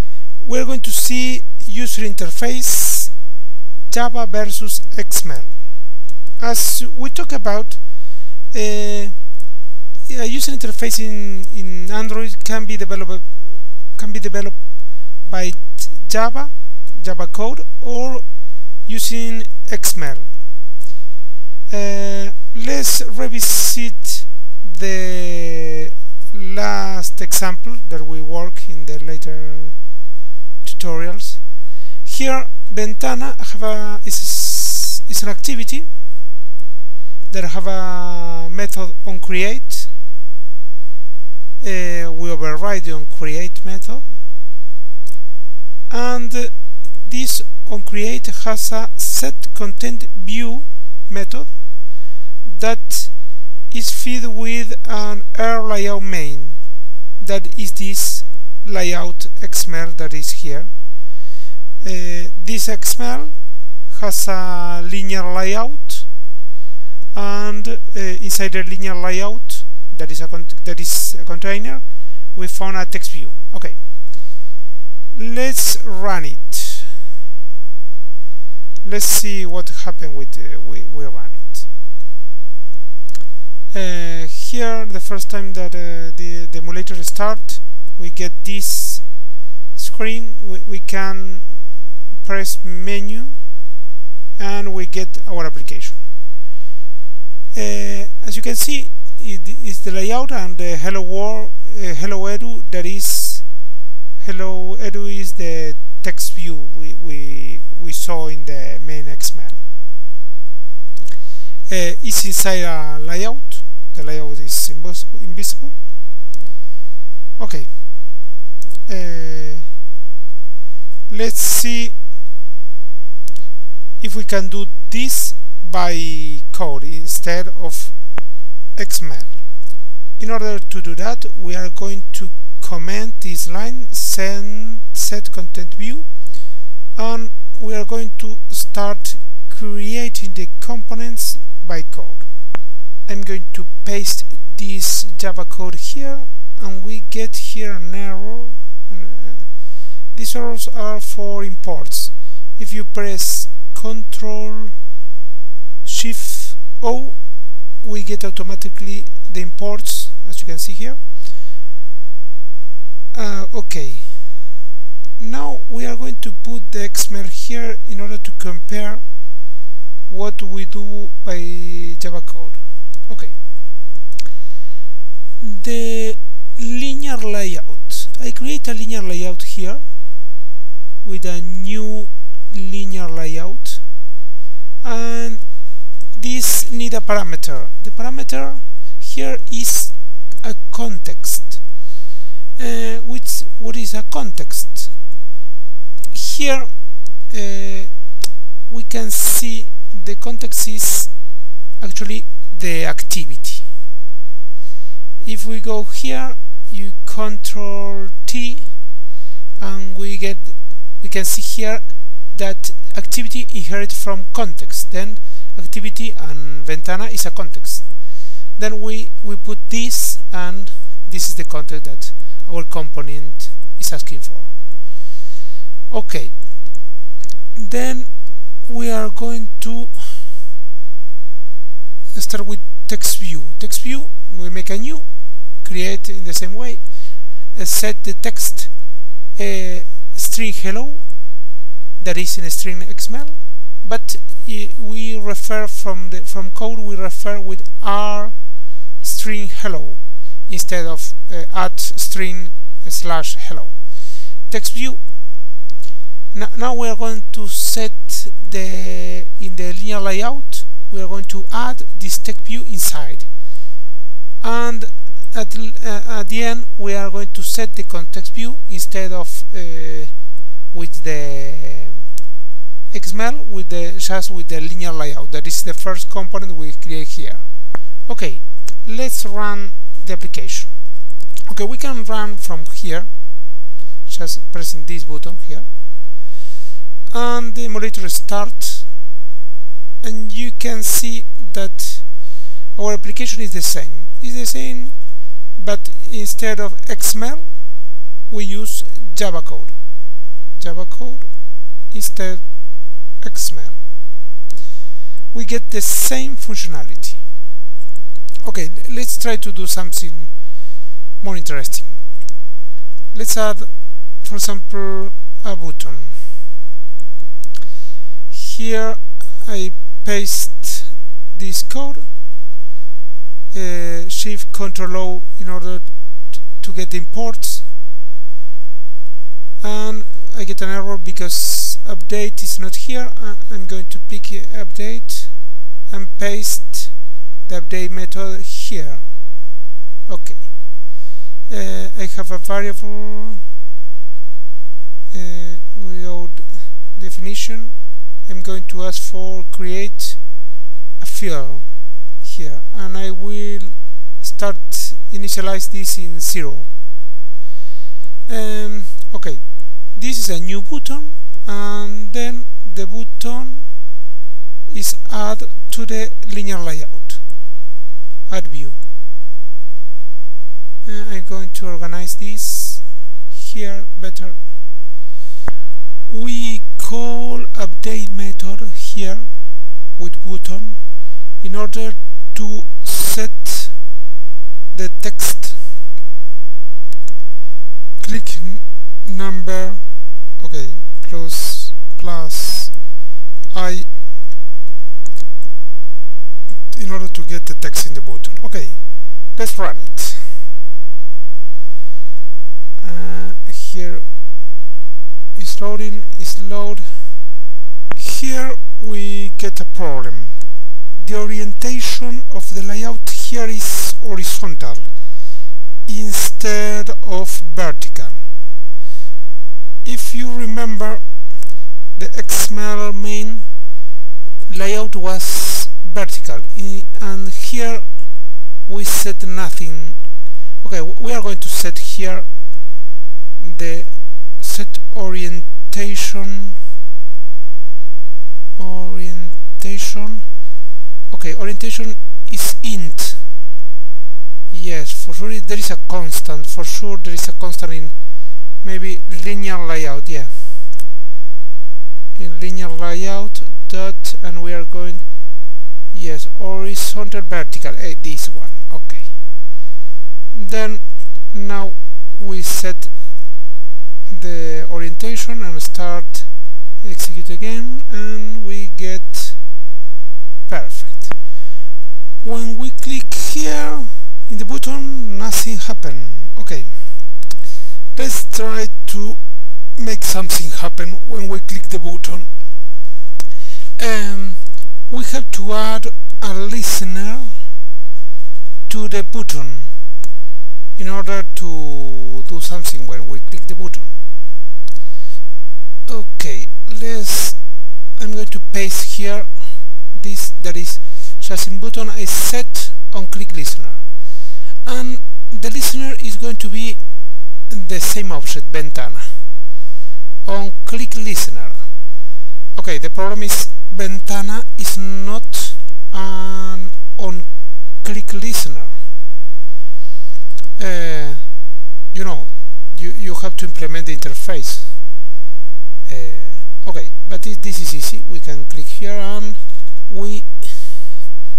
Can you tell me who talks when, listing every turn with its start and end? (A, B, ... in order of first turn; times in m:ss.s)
0:00.4-0:03.2 A
0:03.9-0:05.8 A
0:06.4-0:09.4 A
0:10.1-0:20.3 A
0:21.7-0:29.8 A
0:30.6-0:35.9 A
0:37.3-0:39.9 A
0:41.6-0:44.1 A
0:45.9-1:00.7 A
1:01.8-1:06.1 A
1:07.1-1:14.4 A
1:15.1-1:16.9 A
1:18.8-1:21.6 A
1:23.7-1:33.5 A
1:34.4-1:36.0 A
1:37.5-1:43.6 A
1:44.2-1:49.6 A
1:51.7-1:55.7 A
1:57.4-1:58.3 A
1:58.8-1:59.7 A
2:01.1-2:02.0 A
2:04.0-2:09.6 A
2:10.2-2:22.3 A
2:23.0-2:34.8 A
2:35.8-2:41.2 A
2:43.1-2:44.5 A
2:45.2-2:49.2 A
2:50.1-2:53.4 A
2:55.4-2:59.9 A
3:01.0-3:03.9 A
3:04.8-3:11.7 A
3:12.6-3:15.0 A
3:16.1-3:18.1 A
3:18.7-3:23.7 A
3:25.2-3:29.0 A
3:29.6-3:44.5 A
3:45.9-3:46.8 A
3:47.5-3:50.3 A
3:52.1-4:01.3 A
4:02.0-4:15.0 A
4:16.3-4:23.3 A
4:24.4-4:32.1 A
4:32.9-4:40.8 A
4:41.5-4:45.7 A
4:47.1-4:49.0 A
4:50.0-4:57.8 A
4:58.3-4:59.8 A
5:00.5-5:01.3 A
5:01.8-5:03.8 A
5:05.3-5:07.2 A
5:08.4-5:12.1 A
5:13.1-5:16.2 A
5:18.3-5:22.1 A
5:23.5-5:27.7 A
5:29.6-5:39.2 A
5:40.0-5:43.4 A
5:45.1-5:50.4 A
5:51.0-5:56.7 A
5:58.2-6:03.8 A
6:04.7-6:07.2 A
6:08.3-6:08.8 A
6:10.8-6:14.4 A
6:16.1-6:19.3 A
6:19.9-6:23.8 A
6:24.7-6:25.7 A
6:28.0-6:29.8 A
6:30.4-6:32.9 A
6:33.5-6:33.9 A
6:36.7-6:40.4 A
6:42.8-6:44.0 A
6:45.3-6:47.2 A
6:47.9-6:50.4 A
6:50.9-6:54.9 A
6:55.8-6:58.2 A
6:59.8-7:01.2 A
7:01.9-7:03.5 A
7:04.4-7:08.1 A
7:08.6-7:10.0 A
7:10.6-7:12.3 A
7:13.4-7:16.5 A
7:18.6-7:20.3 A
7:21.1-7:23.2 A
7:24.5-7:28.0 A
7:28.6-7:30.6 A
7:32.1-7:35.1 A
7:35.9-7:39.2 A
7:40.3-7:43.2 A
7:44.1-7:49.4 A
7:50.5-7:51.3 A
7:52.2-7:57.3 A
7:57.9-7:59.2 A
7:59.7-8:02.3 A
8:03.8-8:07.4 A
8:08.7-8:09.8 A
8:10.8-8:13.9 A
8:15.9-8:17.4 A
8:18.0-8:23.9 A
8:24.6-8:26.8 A
8:27.4-8:29.2 A
8:30.2-8:31.7 A
8:32.5-8:38.8 A
8:40.6-8:44.8 A
8:45.8-8:51.0 A